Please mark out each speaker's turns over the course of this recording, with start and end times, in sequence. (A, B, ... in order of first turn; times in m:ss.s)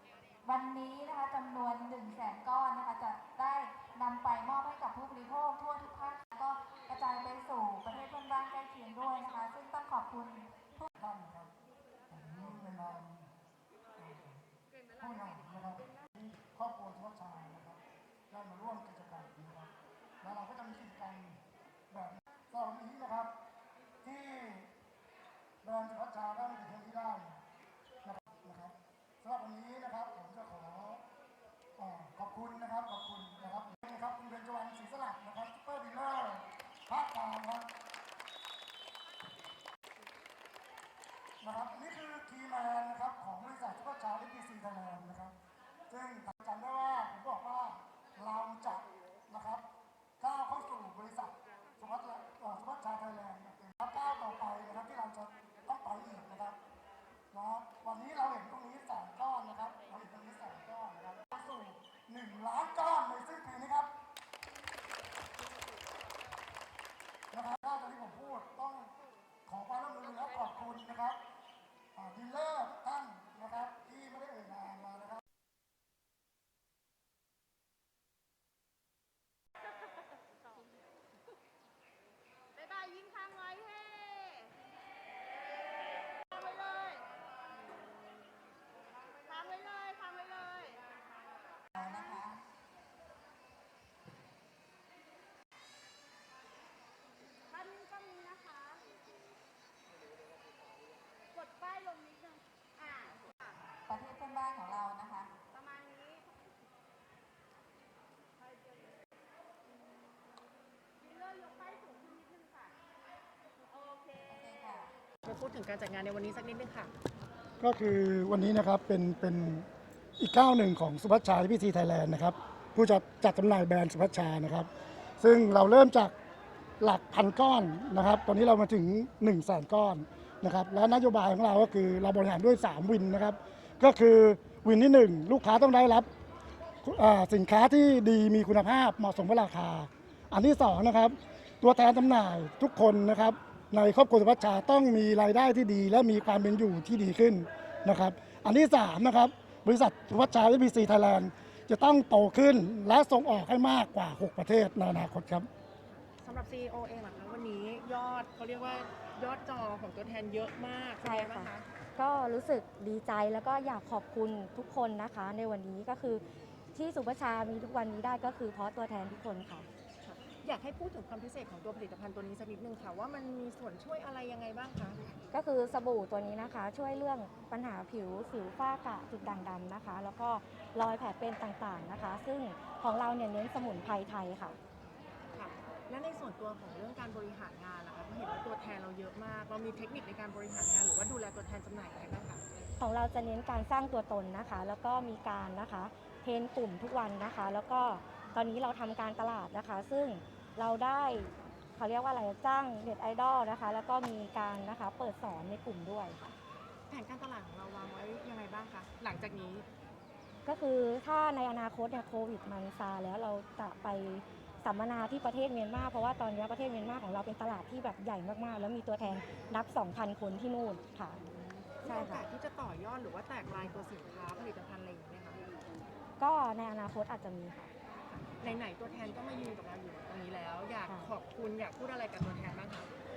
0:00.4-0:10.9 A
0:11.0-0:11.5 B
0:12.1-0:13.3 B
0:14.0-0:14.4 B
0:15.0-0:17.8 B
0:18.3-0:21.4 B
0:21.9-0:23.3 B
0:24.0-0:24.7 B
0:25.6-0:27.4 B
0:28.0-0:31.0 B
0:31.8-0:37.7 B
0:41.4-0:45.4 B
0:45.9-0:49.6 B
0:50.2-0:56.6 B
0:57.3-1:03.9 B
1:07.3-1:08.9 B
1:09.5-1:11.2 B
1:12.0-1:15.2 B
1:22.6-1:24.4 C
1:26.4-1:27.0 C
1:29.3-1:30.8 C
1:31.8-1:32.4 A
1:37.5-1:38.8 C
1:41.4-1:42.3 C
1:42.8-1:43.4 C
1:43.9-1:45.3 A
1:45.6-1:46.2 C
1:51.1-1:52.7 C
1:54.3-1:54.9 A
1:55.2-1:56.9 D
1:57.6-1:59.7 B
2:00.2-2:04.7 B
2:05.2-2:06.1 B
2:06.8-2:16.1 B
2:16.8-2:35.5 B
2:36.2-2:41.6 D
2:41.0-2:46.2 E
2:46.7-2:49.7 E
2:50.0-2:55.2 D
2:55.3-3:04.6 E
3:05.3-3:12.4 D
3:12.8-3:26.3 E
3:26.9-3:29.7 D
3:30.5-3:41.2 E
3:41.2-3:45.4 D
3:41.8-3:42.2 E
3:46.2-3:47.7 E
3:48.0-3:52.9 D